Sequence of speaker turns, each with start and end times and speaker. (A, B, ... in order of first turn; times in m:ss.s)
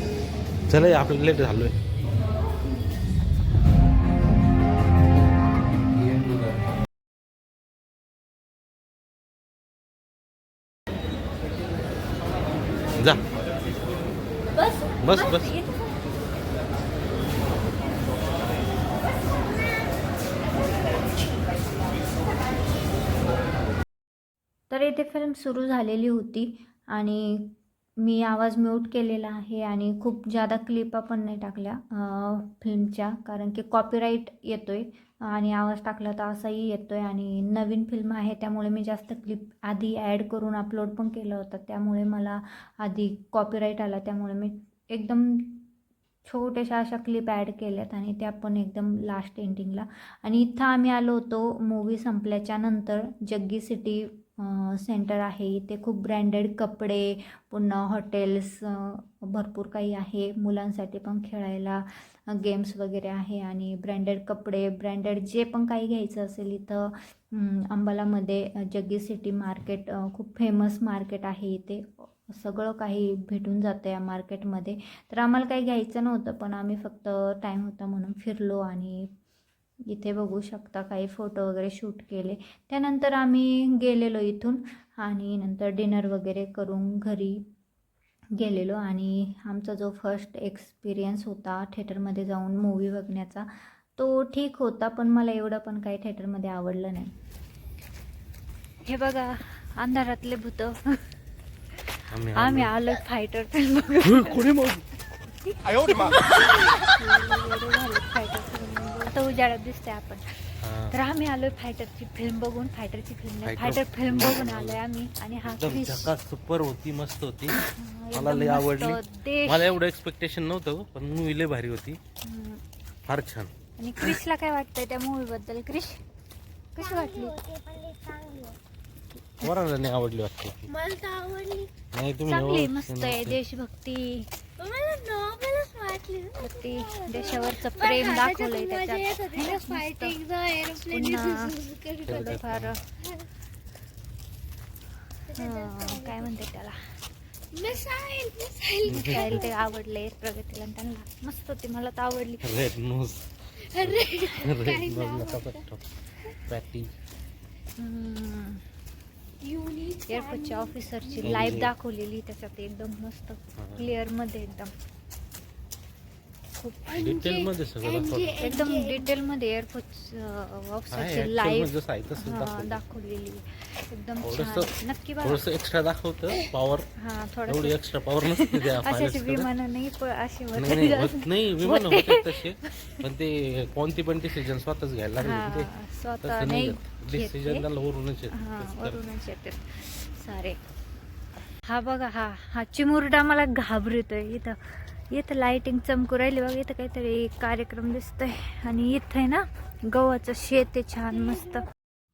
0:00.7-0:01.8 A
0:05.9-0:06.5 A
0:13.0-0:13.2 A
0:15.0-0:15.6 A
0:24.7-0:45.7 B
0:46.3-1:19.1 B
1:19.9-1:27.4 B
1:28.4-1:37.1 B
1:38.8-1:41.0 B
1:41.8-1:44.5 B
1:42.1-1:42.7 A
1:44.0-1:44.8 A
1:45.2-1:56.1 B
1:50.6-1:51.0 A
1:53.4-1:54.8 A
1:55.4-1:57.6 A
1:57.6-1:59.8 B
1:58.1-2:02.0 A
2:02.2-2:02.6 B
2:03.0-2:03.5 A
2:03.8-2:06.0 B
2:06.8-2:07.3 B
2:06.8-2:08.6 C
2:09.1-2:09.6 B
2:09.4-2:10.7 A
2:10.7-2:11.7 C
2:11.9-2:13.4 A
2:12.2-2:14.3 B
2:14.6-2:22.4 C
2:16.4-2:20.2 B
2:20.8-2:21.6 B
2:22.1-2:22.7 A
2:22.1-2:22.8 B
2:25.2-2:26.4 C
2:25.4-2:26.8 B
2:27.5-2:29.6 C
2:28.9-2:29.4 A
2:28.9-2:32.5 B
2:32.4-2:33.3 A
2:33.6-2:35.6 C
2:33.8-2:35.8 A
2:36.5-2:37.0 A
2:37.8-2:38.6 B
2:39.4-2:41.6 C
2:40.1-2:44.7 B
2:41.2-2:41.7 A
2:43.6-2:44.0 A
2:46.6-2:46.9 B
2:46.9-2:49.1 C
2:46.9-2:48.4 A
2:48.4-2:55.4 B
2:50.9-2:52.8 A
2:54.2-2:56.9 A
2:57.0-3:03.0 B
2:57.5-2:59.5 A
3:00.5-3:05.7 A
3:05.2-3:07.6 B
3:06.2-3:09.0 A
3:08.3-3:10.6 B
3:11.6-3:21.6 B